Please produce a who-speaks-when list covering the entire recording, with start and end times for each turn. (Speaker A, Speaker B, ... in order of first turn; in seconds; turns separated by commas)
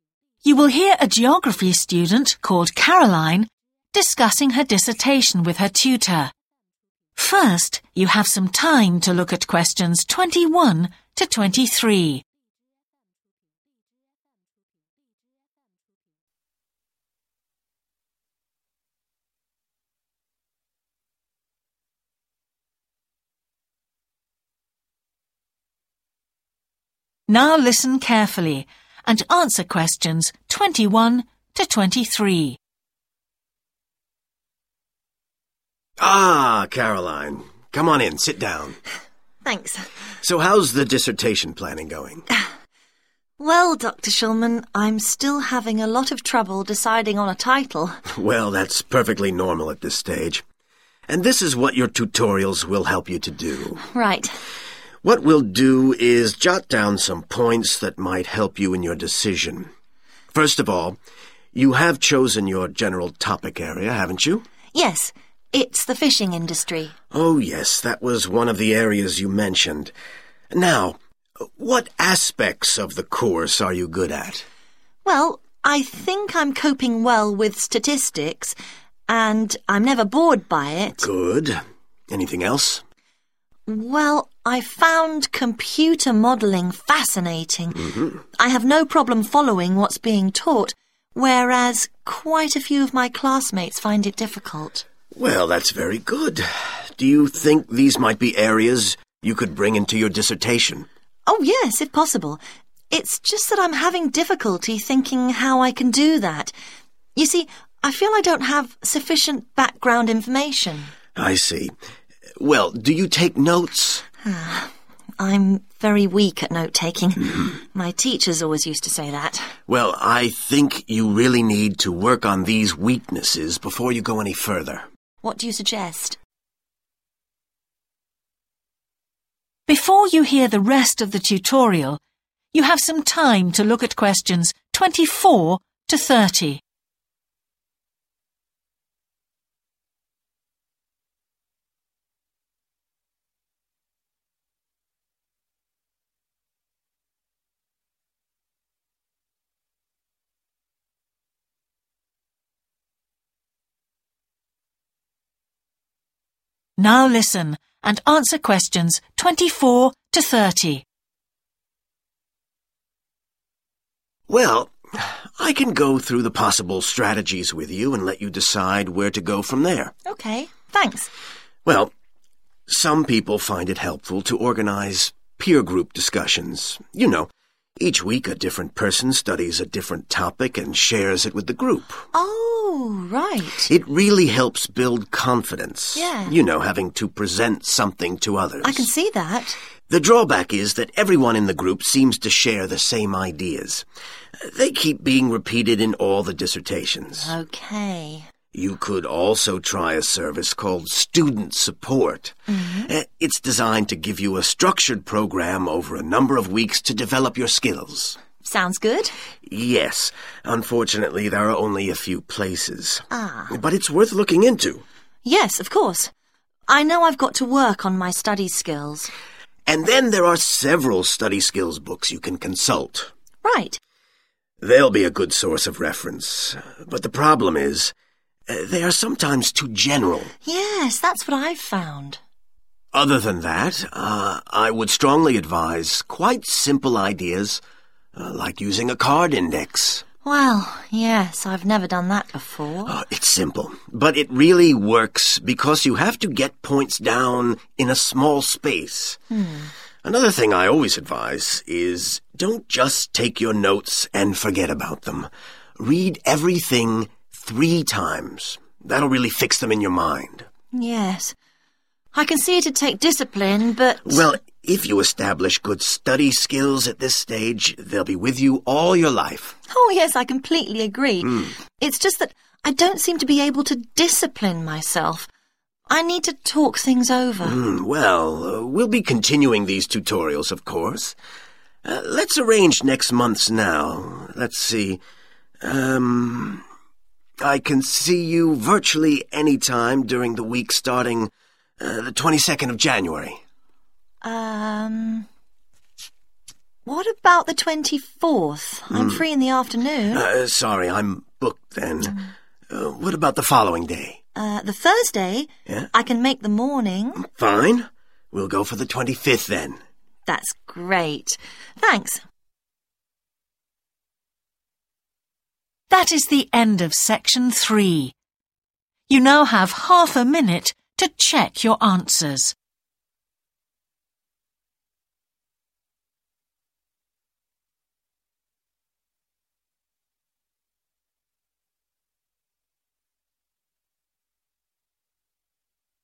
Speaker A: 0.4-6.3, Speaker A: 7.2-12.2, Speaker A: 27.3-32.6, Speaker B: 36.0-38.8, Speaker C: 39.4-39.9, Speaker B: 40.2-42.2, Speaker C: 43.4-48.0, Speaker B: 48.1-50.4, Speaker B: 51.1-53.8, Speaker C: 53.9-54.3, Speaker B: 55.0-59.7, Speaker B: 60.3-61.0, Speaker B: 61.5-64.4, Speaker C: 64.7-66.9, Speaker B: 67.1-69.9, Speaker B: 70.5-74.4, Speaker C: 75.0-78.6, Speaker C: 79.1-81.0, Speaker B: 81.0-82.8, Speaker C: 83.7-94.8, Speaker B: 95.1-100.9, Speaker C: 101.2-106.5, Speaker C: 107.1-110.9, Speaker B: 111.1-111.7, Speaker B: 112.4-114.0, Speaker C: 114.2-119.5, Speaker B: 119.7-124.8, Speaker C: 125.2-126.2, Speaker A: 129.7-132.0, Speaker A: 132.5-136.6, Speaker A: 156.8-160.8, Speaker B: 164.3-169.9, Speaker C: 170.1-171.1, Speaker B: 171.6-171.9, Speaker B: 172.7-182.0, Speaker C: 182.1-183.7, Speaker B: 183.7-188.9, Speaker C: 185.9-186.3, Speaker C: 188.6-189.6, Speaker B: 189.9-193.8, Speaker B: 194.4-197.3, Speaker C: 197.2-198.3, Speaker B: 198.5-208.2, Speaker C: 202.5-202.9, Speaker C: 208.4-209.1, Speaker B: 209.4-214.8, Speaker C: 213.1-213.5, Speaker C: 215.2-216.1, Speaker C: 216.7-219.1, Speaker B: 219.7-223.1, Speaker C: 223.4-223.8, Speaker B: 224.6-227.9, Speaker B: 228.5-230.3, Speaker C: 230.4-232.2, Speaker B: 232.9-237.6, Speaker B: 238.1-240.0, Speaker C: 240.2-242.9, Speaker B: 242.9-249.2, Speaker C: 249.3-249.7, Speaker B: 250.0-260.5, Speaker C: 260.7-261.4, Speaker C: 262.1-264.3, Speaker B: 264.0-269.6, Speaker C: 269.7-275.3, Speaker C: 275.9-277.6, Speaker B: 277.4-281.1, Speaker B: 281.8-285.0, Speaker B: 285.6-286.6, Speaker B: 287.4-293.4, Speaker C: 294.2-295.3, Speaker C: 296.8-300.2, Speaker B: 298.9-299.2, Speaker B: 300.1-304.2, Speaker C: 304.3-307.2, Speaker B: 307.1-309.8, Speaker C: 310.3-312.2, Speaker A: 315.9-318.1, Speaker A: 319.1-322.6